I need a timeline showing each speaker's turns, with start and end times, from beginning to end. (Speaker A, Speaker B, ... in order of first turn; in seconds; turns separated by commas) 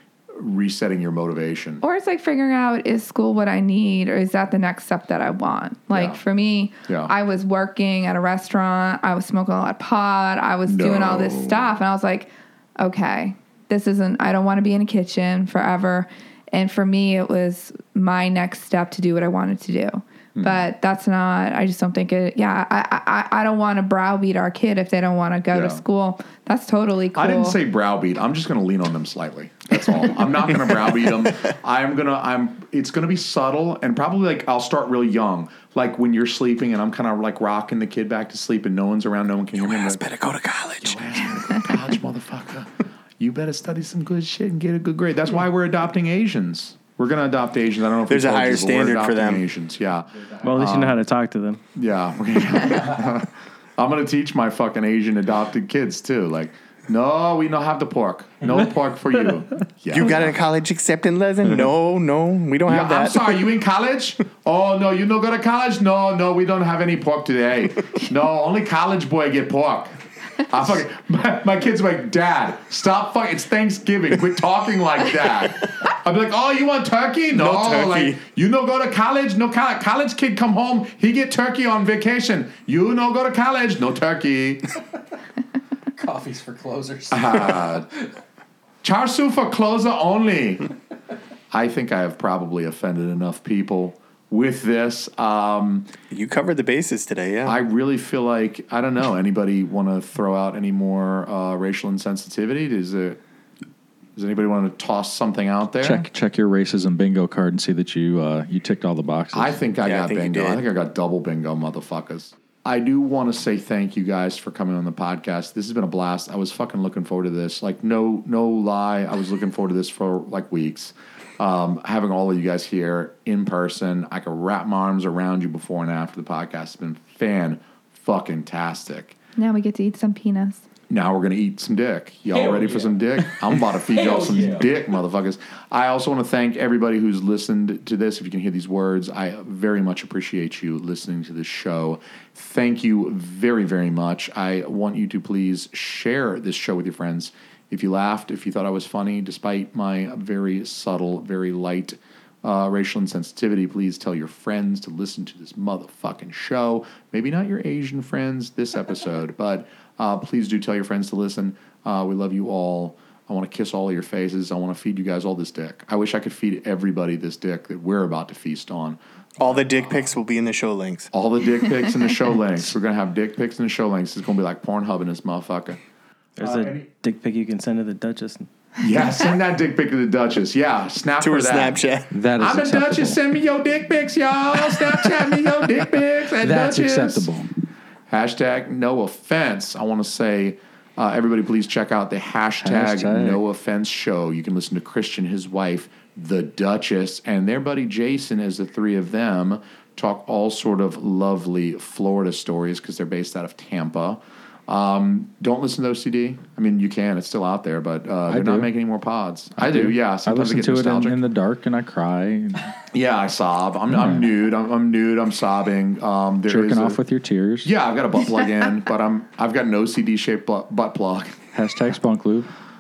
Speaker A: 0.3-1.8, Speaker B: 1.8-27.6, Speaker A: 5.9-6.2, Speaker A: 10.7-11.8, Speaker A: 20.4-20.6, Speaker A: 25.5-25.8, Speaker A: 27.1-40.0, Speaker C: 39.6-41.2, Speaker A: 40.8-51.0, Speaker C: 48.1-49.4, Speaker D: 50.4-51.6, Speaker A: 51.8-60.4, Speaker C: 59.9-63.4, Speaker A: 62.6-84.7, Speaker C: 77.3-78.2, Speaker E: 86.0-87.7, Speaker A: 87.1-87.9, Speaker A: 88.8-90.7, Speaker A: 91.5-95.9, Speaker C: 96.1-97.6, Speaker A: 97.4-103.2, Speaker A: 104.2-106.0, Speaker E: 105.8-109.6, Speaker A: 109.3-129.1, Speaker C: 109.8-110.6, Speaker B: 129.4-130.7, Speaker A: 130.9-170.1, Speaker E: 132.4-132.7, Speaker E: 133.9-134.6, Speaker C: 169.4-171.1, Speaker A: 171.1-175.8, Speaker D: 176.4-178.5, Speaker A: 176.4-176.9, Speaker A: 178.8-181.8, Speaker C: 181.2-182.1, Speaker E: 182.1-183.2, Speaker A: 182.4-187.3, Speaker E: 186.4-187.5, Speaker A: 188.1-211.2, Speaker E: 192.6-193.4, Speaker E: 208.3-208.7, Speaker E: 209.6-212.8, Speaker A: 212.9-217.0, Speaker E: 213.9-214.3, Speaker E: 216.5-217.7, Speaker A: 217.6-221.4, Speaker E: 221.5-222.5